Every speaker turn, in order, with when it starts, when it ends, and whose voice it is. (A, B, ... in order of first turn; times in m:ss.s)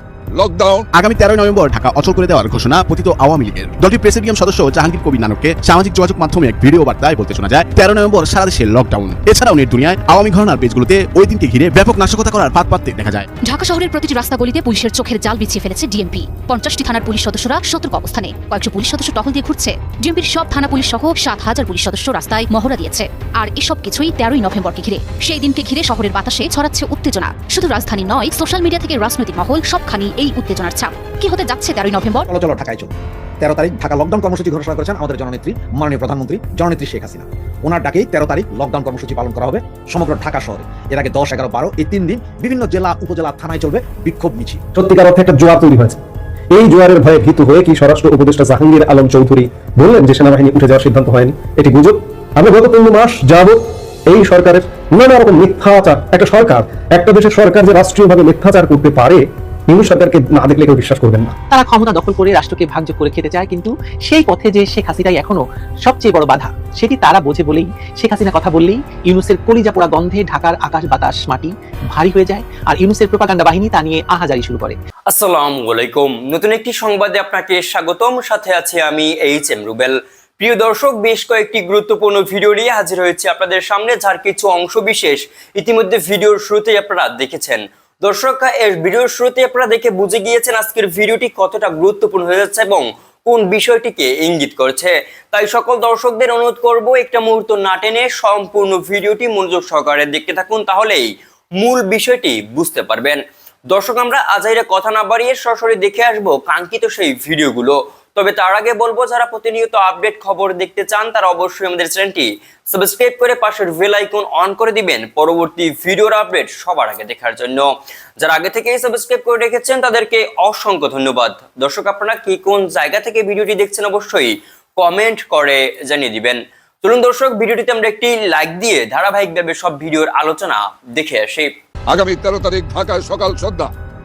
0:00.3-0:00.9 A
0:00.9-0:13.3 B
0:13.5-0:32.3 C
0:32.3-0:44.6 D
0:44.8-0:46.0 E
0:46.5-1:01.4 E
1:01.5-1:14.8 F
1:15.1-1:43.2 G
1:43.7-1:57.7 G
1:58.2-2:11.5 G
2:11.9-2:13.7 A